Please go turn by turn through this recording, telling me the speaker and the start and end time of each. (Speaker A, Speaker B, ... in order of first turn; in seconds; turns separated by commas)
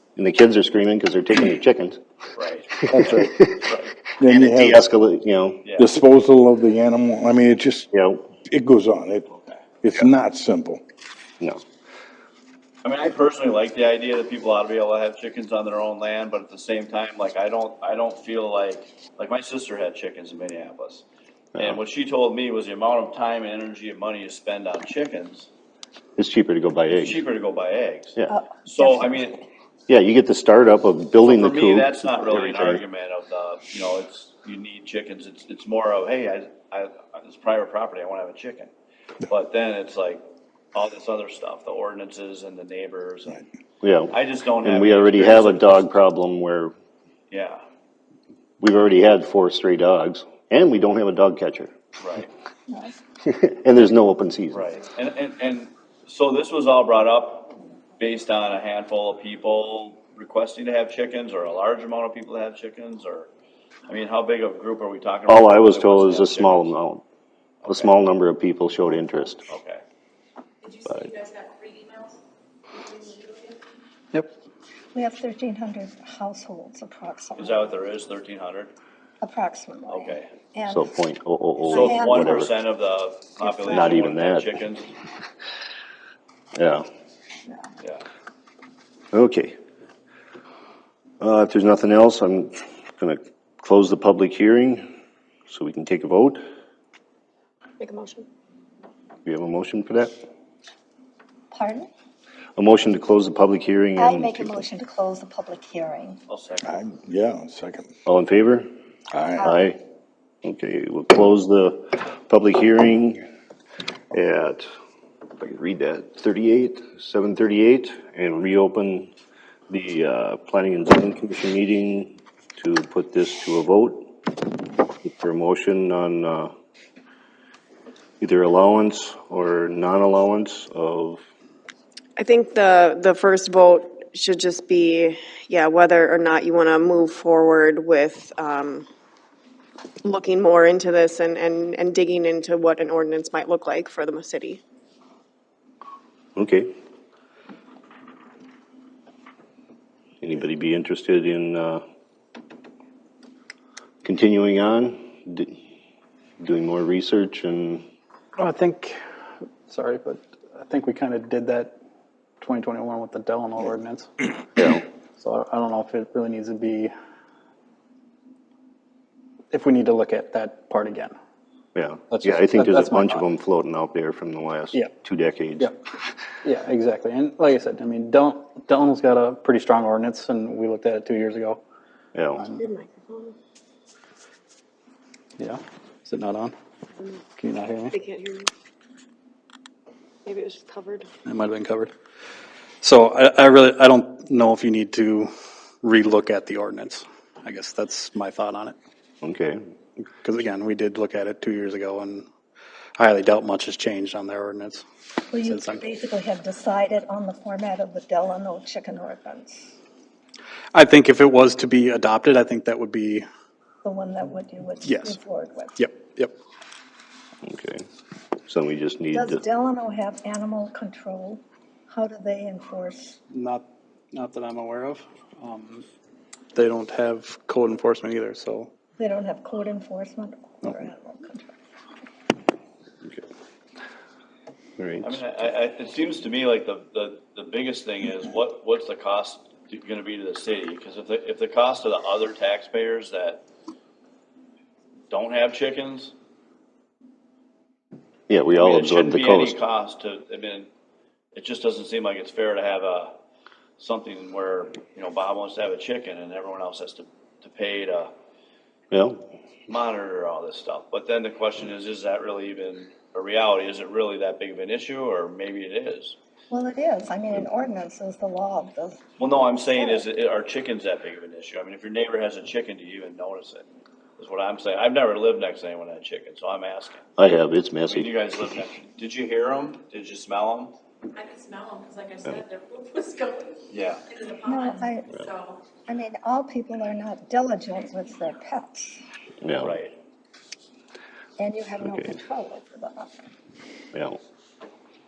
Speaker A: 0.2-2.0, Speaker B: 2.4-3.0, Speaker C: 2.9-3.5, Speaker A: 3.0-3.6, Speaker B: 3.6-4.0, Speaker C: 4.2-4.8, Speaker A: 4.2-5.6, Speaker B: 5.6-5.9, Speaker C: 5.8-7.9, Speaker A: 7.9-8.2, Speaker C: 8.5-10.8, Speaker B: 12.8-21.1, Speaker B: 21.6-25.5, Speaker A: 26.2-27.2, Speaker B: 26.9-29.4, Speaker D: 28.3-29.3, Speaker A: 29.9-32.8, Speaker B: 31.2-38.7, Speaker B: 39.3-43.4, Speaker A: 43.8-46.7, Speaker B: 44.1-46.0, Speaker B: 47.3-47.6, Speaker A: 48.6-51.7, Speaker B: 52.0-52.3, Speaker A: 53.3-54.6, Speaker B: 54.5-63.3, Speaker B: 63.9-66.8, Speaker A: 65.3-67.0, Speaker B: 67.6-67.9, Speaker A: 67.7-69.5, Speaker B: 69.5-69.8, Speaker E: 70.6-72.2, Speaker E: 72.7-73.6, Speaker D: 74.9-77.7, Speaker B: 77.4-78.7, Speaker D: 79.2-80.9, Speaker B: 79.9-80.3, Speaker A: 80.7-82.5, Speaker D: 81.7-82.5, Speaker B: 81.7-84.9, Speaker D: 83.4-83.9, Speaker A: 83.7-84.5, Speaker A: 86.6-86.9, Speaker B: 87.8-88.0, Speaker A: 89.1-89.6, Speaker A: 91.2-94.8, Speaker A: 95.5-96.4, Speaker F: 97.8-98.3, Speaker A: 99.2-100.1, Speaker D: 101.5-101.9, Speaker A: 102.6-104.7, Speaker D: 104.0-106.2, Speaker B: 106.3-106.9, Speaker C: 106.6-107.9, Speaker A: 108.1-108.7, Speaker C: 109.1-109.5, Speaker A: 109.4-109.8, Speaker A: 110.4-113.2, Speaker A: 114.1-114.7, Speaker A: 115.4-119.1, Speaker A: 119.7-124.1, Speaker A: 125.0-126.5, Speaker A: 128.2-131.2, Speaker F: 132.2-138.9, Speaker F: 140.0-144.6, Speaker A: 146.4-146.7, Speaker A: 150.2-151.8, Speaker A: 154.0-155.6, Speaker A: 156.4-157.9, Speaker G: 158.4-159.0, Speaker G: 159.7-161.8, Speaker G: 162.4-164.1, Speaker A: 164.6-164.8, Speaker G: 165.2-166.9, Speaker G: 169.5-171.2, Speaker A: 171.8-175.7, Speaker G: 172.1-173.2, Speaker G: 176.4-181.6, Speaker A: 182.1-182.4, Speaker G: 182.4-182.6, Speaker F: 182.6-183.4, Speaker G: 185.4-186.6, Speaker G: 187.4-187.9, Speaker F: 187.9-188.5, Speaker F: 190.3-191.1, Speaker G: 191.2-191.9, Speaker G: 192.8-195.3, Speaker G: 195.8-198.8, Speaker A: 199.2-199.6, Speaker G: 200.2-202.3, Speaker G: 203.0-204.8, Speaker D: 205.3-209.7, Speaker G: 205.4-205.9, Speaker G: 210.7-213.3, Speaker D: 213.8-215.8, Speaker G: 214.8-215.2, Speaker G: 215.8-216.3, Speaker A: 217.4-217.8, Speaker A: 218.5-219.4, Speaker D: 219.1-223.2, Speaker G: 223.3-225.9, Speaker G: 226.5-228.7, Speaker D: 229.0-231.6, Speaker A: 234.8-235.2, Speaker B: 235.0-243.4, Speaker B: 245.1-246.1, Speaker A: 248.3-249.6, Speaker B: 248.6-250.7, Speaker B: 251.3-253.1, Speaker B: 253.8-258.1, Speaker A: 258.9-259.2, Speaker B: 259.7-266.2, Speaker D: 266.5-269.0, Speaker B: 269.2-273.6, Speaker D: 269.7-270.0, Speaker B: 274.2-277.0, Speaker A: 277.2-278.1, Speaker B: 277.9-280.8, Speaker E: 281.1-285.6, Speaker B: 283.7-284.0, Speaker D: 284.4-285.2, Speaker D: 285.9-289.0, Speaker A: 289.4-289.8, Speaker B: 289.6-289.9, Speaker D: 291.4-293.2, Speaker A: 291.9-292.2